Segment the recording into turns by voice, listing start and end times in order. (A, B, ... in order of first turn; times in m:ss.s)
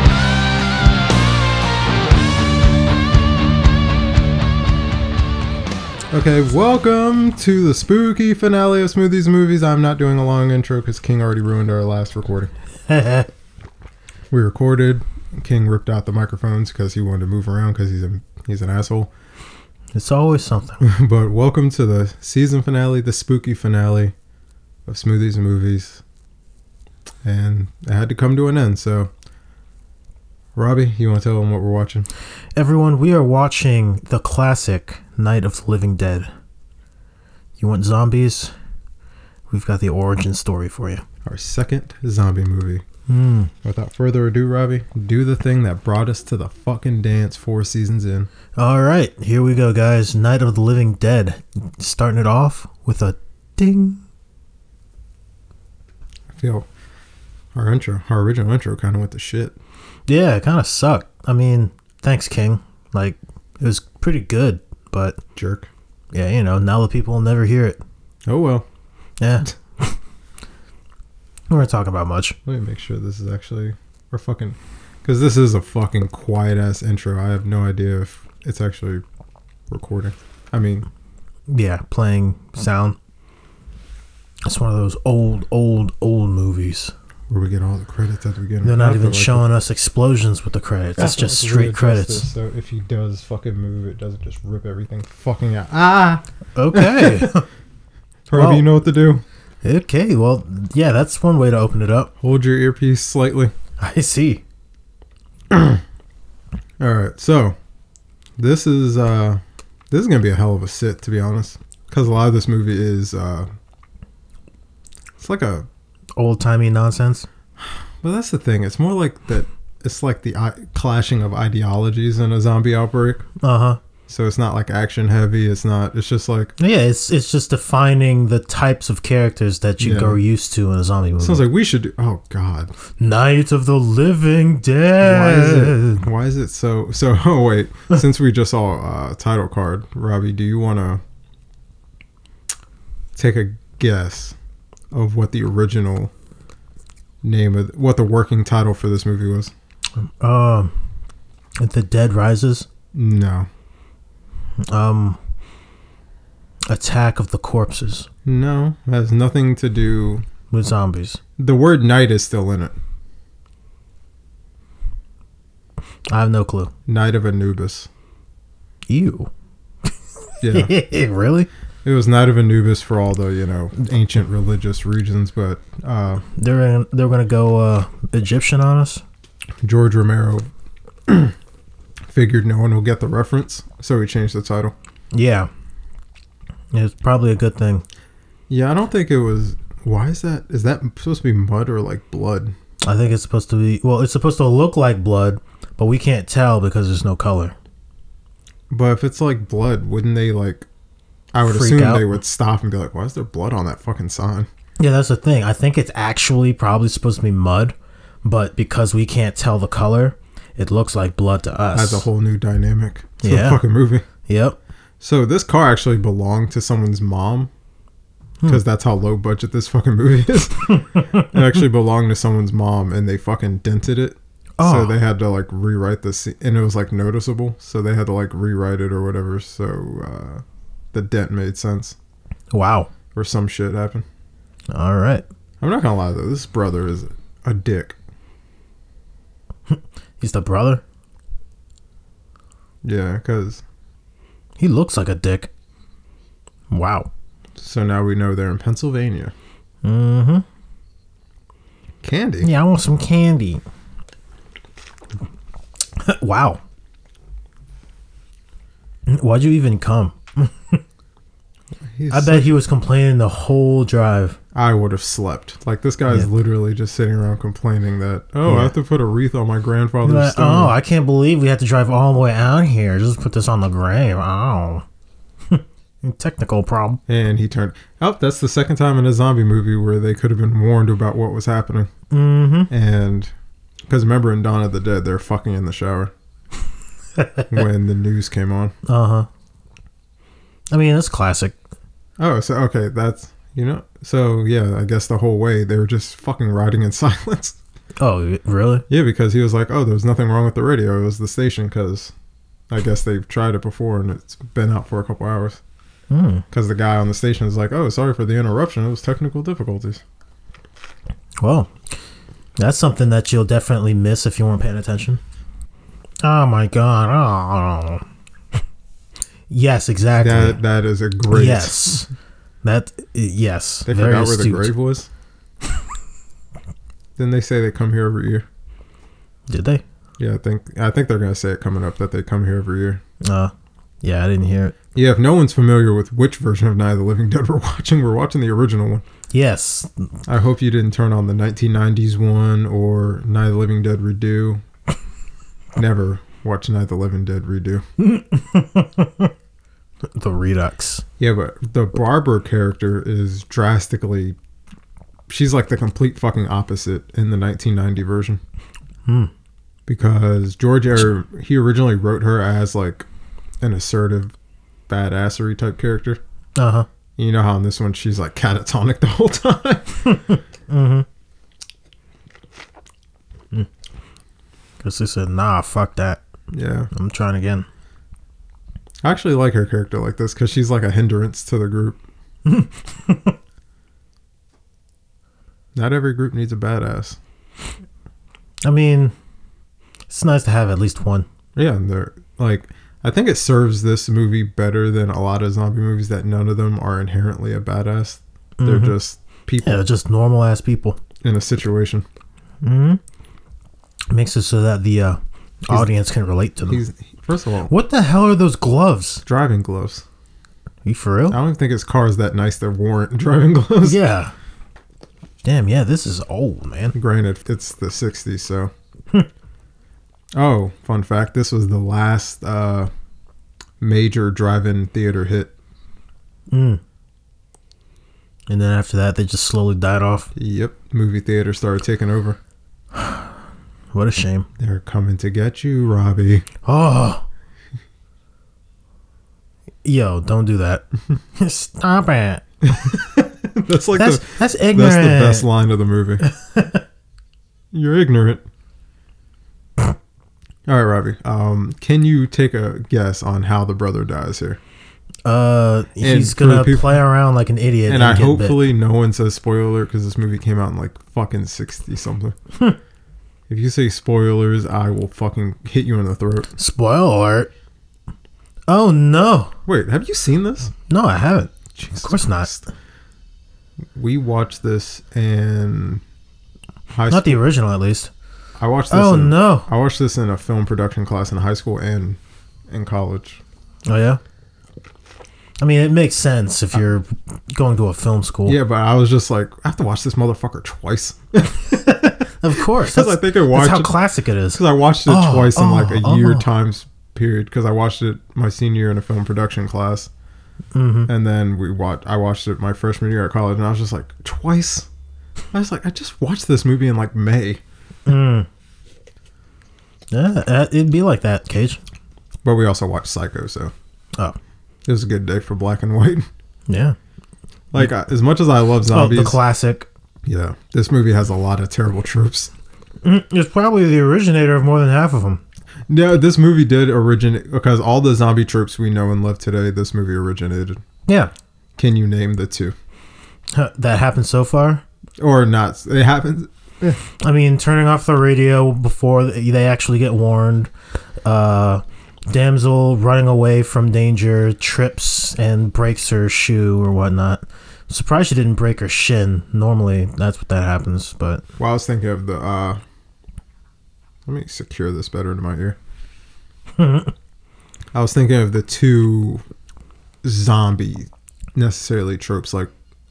0:06.1-0:12.5 A
0:12.9-0:13.3 B
0:14.3-0:19.1 A
0:20.0-0:20.8 B
0:20.8-0:24.1 A
0:24.8-0:26.0 A
0:27.2-0:29.1 A
0:30.6-0:32.1 A
0:32.6-0:36.3 B
0:37.6-0:38.5 B
0:39.5-0:41.0 B
0:41.2-0:42.8 A
0:43.1-0:43.5 B
0:43.6-0:48.3 A
0:48.6-0:54.0 B
0:56.3-0:56.7 A
0:57.5-0:59.6 A
1:00.1-1:05.2 B
1:05.4-1:05.7 A
1:06.1-1:07.8 B
1:08.3-1:08.7 A
1:09.2-1:09.9 B
1:11.5-1:12.4 B
1:12.5-1:19.0 A
1:19.7-1:20.9 A
1:21.5-1:23.0 B
1:24.5-1:26.9 B
1:27.3-1:29.4 A
1:28.6-1:32.3 B
1:31.0-1:37.3 A
1:36.6-1:37.4 B
1:38.3-1:39.2 A
1:38.3-1:38.7 B
1:39.6-1:42.1 B
1:42.2-1:43.5 A
1:43.8-1:44.4 B
1:45.5-1:45.8 A
1:46.8-1:47.6 A
1:48.4-1:53.5 A
1:55.2-1:55.7 A
1:56.2-1:57.3 B
1:57.6-2:03.2 A
2:03.4-2:03.8 B
2:04.1-2:06.5 A
2:06.6-2:11.4 B
2:09.8-2:10.2 A
2:11.2-2:12.7 A
2:13.0-2:16.0 B
2:15.0-2:21.0 A
2:23.2-2:24.4 A
2:24.9-2:26.1 A
2:27.2-2:29.5 A
2:30.0-2:30.7 B
2:31.6-2:32.7 B
2:32.9-2:33.5 A
2:34.7-2:35.2 B
2:36.7-2:38.1 B
2:38.2-2:40.2 A
2:40.5-2:41.2 B
2:41.4-2:42.8 A
2:46.1-2:46.7 B
2:46.9-2:47.9 A
2:48.9-2:49.3 B
2:50.4-2:50.7 A
2:50.5-2:51.5 B
2:51.8-2:56.2 A
2:56.4-2:59.0 B
2:59.6-3:00.5 A
3:01.1-3:01.3 A
3:02.1-3:04.8 A
3:05.1-3:05.5 B
3:06.7-3:07.8 B
3:08.5-3:12.5 A
3:12.8-3:17.5 B
3:18.7-3:20.7 A
3:21.3-3:24.5 A
3:21.4-3:22.1 B
3:24.8-3:32.1 B
3:31.8-3:34.0 A
3:33.2-3:33.6 B
3:34.2-3:34.6 B
3:35.0-3:37.5 A
3:38.4-3:52.0 A
3:40.9-3:41.3 B
3:44.6-3:45.0 B
3:52.5-3:52.9 B
3:53.1-3:54.0 A
3:54.7-3:55.2 B
3:55.6-3:58.0 A
3:59.7-4:00.8 B
4:02.8-4:03.6 A
4:04.6-4:05.5 B
4:06.7-4:07.1 B
4:07.6-4:09.3 A
4:09.8-4:10.4 B
4:12.0-4:12.5 A
4:12.4-4:13.6 B
4:16.0-4:16.6 B
4:19.1-4:20.8 B
4:21.9-4:22.6 A
4:22.1-4:24.4 B
4:24.5-4:30.8 A
4:28.5-4:28.7 B
4:30.0-4:34.8 B
4:35.5-4:37.0 B
4:37.1-4:41.9 A
4:42.1-4:42.7 B
4:42.7-4:43.3 A
4:43.9-4:46.1 A
4:47.2-4:47.5 B
4:47.5-4:48.7 A
4:48.9-4:49.3 B
4:50.7-4:51.6 B
4:52.2-4:57.6 A
4:58.0-4:58.8 B
4:58.9-5:02.1 A
5:02.7-5:05.6 A
5:06.1-5:06.4 B
5:06.5-5:10.0 A
5:11.4-5:11.7 B
5:12.6-5:15.2 B
5:16.2-5:18.0 B
5:19.5-5:20.6 B
5:20.2-5:22.1 A
5:21.3-5:22.1 B
5:22.6-5:24.7 B
5:23.9-5:25.1 A
5:27.2-5:28.5 A
5:29.5-5:29.8 B
5:30.2-5:33.0 A
5:33.2-5:33.5 B
5:34.0-5:34.8 B
5:34.9-5:39.0 A
5:39.3-5:40.1 B
5:40.3-5:44.6 A
5:45.8-5:47.8 A
5:48.0-5:49.3 B
5:50.2-5:51.0 B
5:51.2-5:54.4 A
5:55.3-5:58.4 A
5:59.1-5:59.3 B
5:59.9-6:03.1 A
6:03.6-6:04.3 A
6:04.9-6:06.2 A
6:06.6-6:06.9 B
6:07.2-6:10.0 A
6:10.1-6:11.0 B
6:14.8-6:16.2 B
6:16.5-6:16.9 A
6:16.9-6:17.7 B
6:19.0-6:22.0 A
6:22.5-6:23.4 B
6:25.8-6:27.2 A
6:28.6-6:29.1 B
6:30.1-6:31.2 B
6:31.6-6:39.8 A
6:38.6-6:39.0 B
6:39.6-6:41.0 B
6:41.2-6:42.1 A
6:42.6-6:43.0 B
6:44.1-6:46.8 B
6:46.7-6:47.7 A
6:47.7-6:49.2 B
6:49.2-6:50.0 A
6:50.8-6:51.4 B
6:51.3-6:54.0 A
6:53.8-6:54.3 B
6:55.4-6:56.9 B
6:56.9-6:58.7 A
7:00.4-7:02.9 A
7:03.8-7:05.5 A
7:06.5-7:06.8 B
7:08.5-7:10.3 B
7:10.4-7:12.4 A
7:12.9-7:13.3 B
7:13.9-7:14.5 B
7:14.6-7:16.5 A
7:16.6-7:17.2 B
7:19.8-7:22.4 B
7:22.6-7:26.2 A
7:24.0-7:25.5 B
7:26.2-7:26.8 B
7:27.7-7:28.5 A
7:30.7-7:34.6 A
7:35.2-7:38.6 B
7:36.0-7:37.0 A
7:37.9-7:42.4 A
7:43.5-7:46.5 A
7:46.5-7:47.5 B
7:48.7-7:49.5 B
7:49.7-7:50.7 A
7:50.9-7:52.5 B
7:51.8-7:52.7 A
7:53.9-7:56.0 A
7:56.9-7:57.4 A
7:57.1-7:58.1 B
7:58.6-8:02.2 A
7:58.9-7:59.7 B
8:02.7-8:03.4 A
8:03.9-8:04.2 B
8:05.6-8:08.6 B
8:08.5-8:12.0 A
8:11.7-8:16.5 B
8:12.6-8:14.0 A
8:14.5-8:20.1 A
8:20.7-8:21.1 B
8:21.1-8:24.9 A
8:25.5-8:27.6 A
8:28.1-8:28.5 B
8:30.1-8:31.8 B
8:32.4-8:33.7 A
8:34.9-8:36.3 A
8:36.7-8:37.0 B
8:37.7-8:39.4 A
8:38.9-8:39.9 B
8:40.2-8:42.5 A
8:43.0-8:45.4 B
8:45.9-8:50.8 A
8:51.1-8:51.3 B
8:51.8-8:52.8 A
8:53.5-8:54.8 B
8:55.2-8:57.0 A
8:57.1-9:00.7 B
9:01.2-9:11.4 B
9:11.6-9:12.8 A
9:14.2-9:15.8 A
9:16.8-9:17.1 B
9:17.9-9:19.4 A
9:20.2-9:22.7 A